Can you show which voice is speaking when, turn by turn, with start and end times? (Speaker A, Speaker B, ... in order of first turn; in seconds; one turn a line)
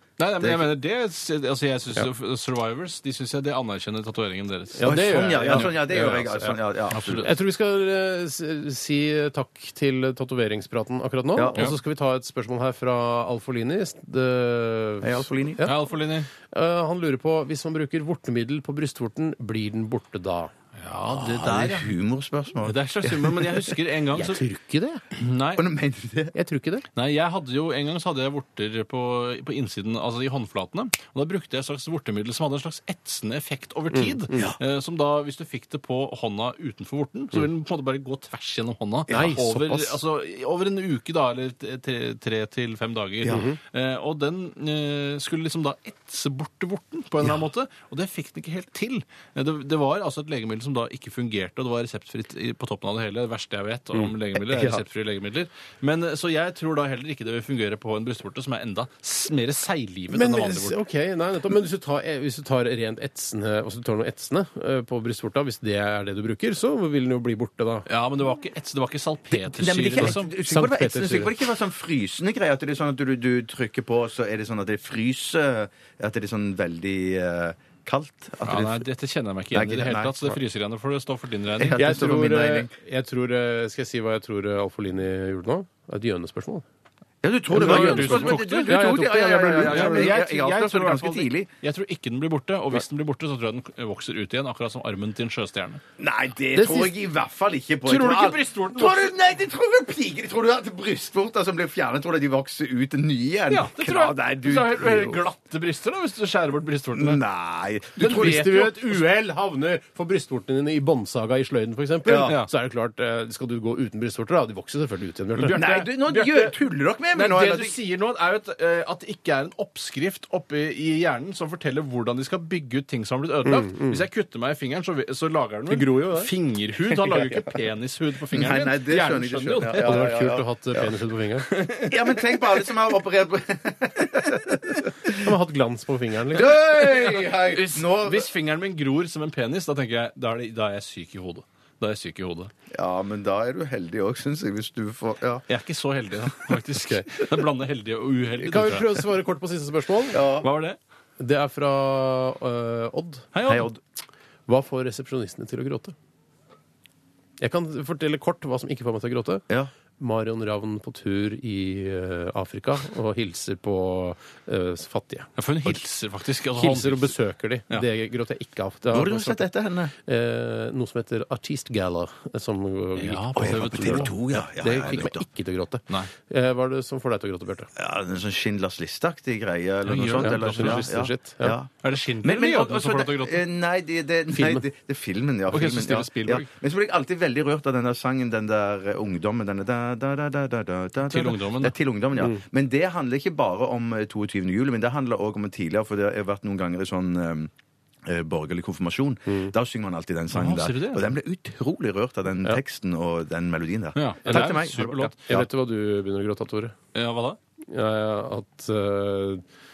Speaker A: 0.2-5.8
Speaker B: 4.8-15.8
Speaker C: 4.8-7.3
Speaker A: 6.9-7.3
Speaker C: 11.3-11.6
Speaker C: 15.0-15.6
Speaker A: 15.6-16.3
Speaker B: 16.4-20.5
Speaker A: 20.8-21.9
Speaker C: 21.1-23.8
Speaker A: 22.6-24.4
Speaker B: 24.1-25.0
Speaker A: 25.1-25.6
Speaker C: 25.5-26.3
Speaker B: 26.3-26.8
Speaker A: 26.9-60.8
Speaker B: 33.9-34.5
Speaker C: 39.1-39.3
Speaker B: 39.1-40.0
Speaker C: 43.2-43.5
Speaker B: 43.3-43.6
Speaker C: 54.4-54.8
Speaker B: 60.1-67.8
Speaker A: 67.9-70.3
Speaker C: 69.6-78.8
Speaker B: 70.0-71.3
Speaker A: 78.4-81.8
Speaker C: 79.5-80.2
Speaker C: 81.6-82.7
Speaker B: 81.8-86.6
Speaker C: 87.2-91.5
Speaker B: 87.5-90.2
Speaker A: 87.5-95.8
Speaker C: 96.0-105.2
Speaker B: 96.5-96.9
Speaker A: 97.8-99.1
Speaker A: 103.5-107.2
Speaker C: 106.9-108.8
Speaker B: 108.0-115.6
Speaker A: 108.2-108.5
Speaker C: 112.0-112.4
Speaker A: 115.4-116.6
Speaker C: 115.5-117.8
Speaker A: 117.1-130.1
Speaker B: 123.5-124.0
Speaker B: 125.7-126.3
Speaker C: 126.9-127.6
Speaker C: 128.3-130.9
Speaker B: 129.8-131.5
Speaker A: 131.5-132.5
Speaker C: 131.9-135.3
Speaker B: 135.2-136.6
Speaker C: 136.3-138.3
Speaker A: 136.7-142.5
Speaker C: 142.7-145.4
Speaker A: 145.5-149.1
Speaker B: 148.4-150.2
Speaker C: 150.1-150.5
Speaker A: 150.2-150.8
Speaker B: 151.2-153.3
Speaker A: 153.3-153.7
Speaker C: 153.4-153.8
Speaker B: 154.5-155.9
Speaker B: 157.4-159.4
Speaker B: 160.0-165.8
Speaker A: 165.4-167.1
Speaker B: 166.6-177.7
Speaker C: 168.9-169.9
Speaker A: 173.0-174.2
Speaker C: 173.3-175.2
Speaker C: 177.8-197.5
Speaker A: 179.8-180.9
Speaker B: 180.2-181.6
Speaker A: 181.8-183.4
Speaker B: 184.3-184.6
Speaker A: 185.5-186.5
Speaker A: 191.0-191.7
Speaker C: 198.0-205.4
Speaker A: 200.3-201.1
Speaker A: 203.9-205.2
Speaker B: 204.3-204.7
Speaker B: 205.2-206.7
Speaker A: 206.9-207.4
Speaker B: 207.7-209.4